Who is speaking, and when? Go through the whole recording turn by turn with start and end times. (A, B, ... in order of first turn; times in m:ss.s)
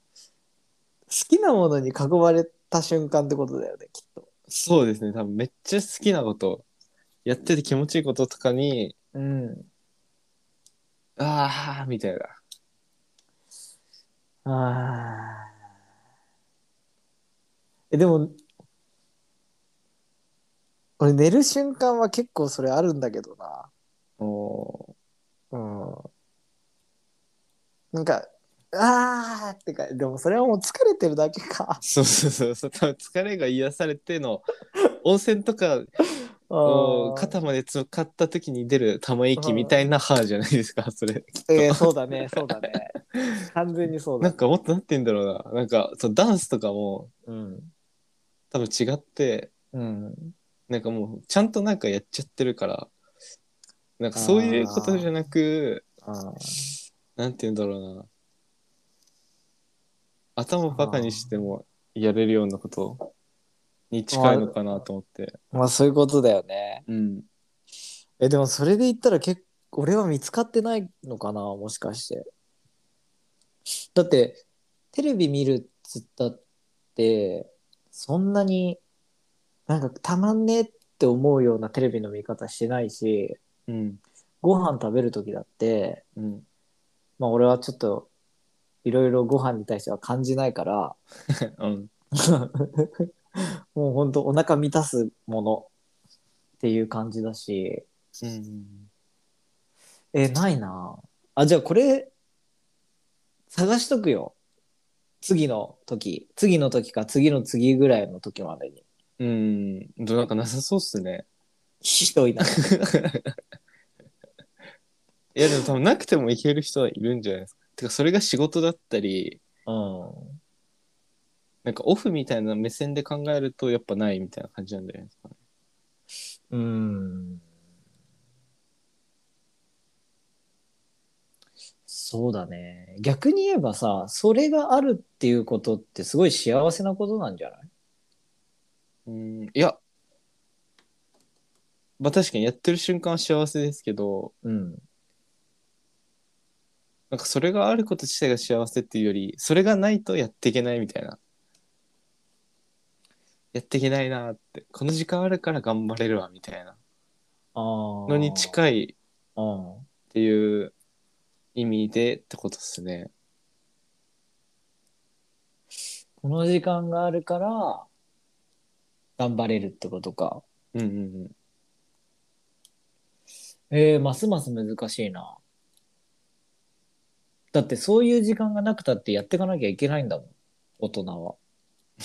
0:01.1-0:04.3 A
0:04.5-0:06.6 B
0:07.2-0:08.9 B
0:09.1-0:09.7 A
0:11.2-0:12.4 B
0:14.4-0:15.5 A
0:17.9-0:18.4 A
0:21.0-0:23.7 A
0:24.2-0:24.9 B
0:25.5-0:26.1 A
0:27.9-0:31.8 A
0:31.8-0:34.4 B
0:35.0-0:35.9 B
0:36.5-0:37.4 A
0:36.6-0:43.4 B
0:39.4-0:39.8 A
0:41.5-0:42.9 A
0:43.5-0:44.4 A
0:44.2-0:47.1 B
0:47.2-0:47.7 A
0:48.5-0:49.5 B
0:49.7-0:50.3 A
0:50.7-0:52.9 B
0:54.0-0:55.8 B
0:54.1-0:55.1 A
0:56.0-0:56.7 A
0:57.2-0:58.1 B
1:00.4-1:03.1 B
1:00.7-1:01.5 A
1:03.9-1:05.4 B
1:04.1-1:04.8 A
1:05.5-1:06.8 A
1:06.9-1:07.2 B
1:08.2-1:12.2 A
1:14.0-1:14.4 A
1:14.9-1:16.4 A
1:17.0-1:18.8 A
1:19.7-1:23.4 A
1:23.7-1:24.0 B
1:24.4-1:26.0 A
1:26.2-1:26.4 B
1:27.2-1:28.1 A
1:28.8-1:31.0 A
1:31.4-1:31.9 B
1:32.2-1:35.7 A
1:36.6-1:37.8 A
1:38.2-1:38.9 B
1:40.1-1:42.1 A
1:43.5-1:44.4 A
1:45.2-1:48.8 A
1:49.2-1:51.2 B
1:51.8-1:52.6 A
1:52.7-1:53.4 B
1:55.4-1:59.4 B
1:59.7-2:00.4 A
2:01.6-2:05.3 B
2:06.5-2:07.4 A
2:11.9-2:17.7 A
2:19.1-2:19.8 B
2:22.0-2:24.3 B
2:24.4-2:24.8 A
2:27.1-2:31.2 B
2:33.5-2:36.8 B
2:37.6-2:38.6 A
2:38.1-2:39.0 B
2:39.4-2:39.9 A
2:40.1-2:40.7 B
2:41.6-2:43.1 B
2:46.2-2:47.9 A
2:49.2-2:50.4 A
2:50.7-2:51.3 B
2:53.7-2:55.4 A
2:57.5-3:01.4 A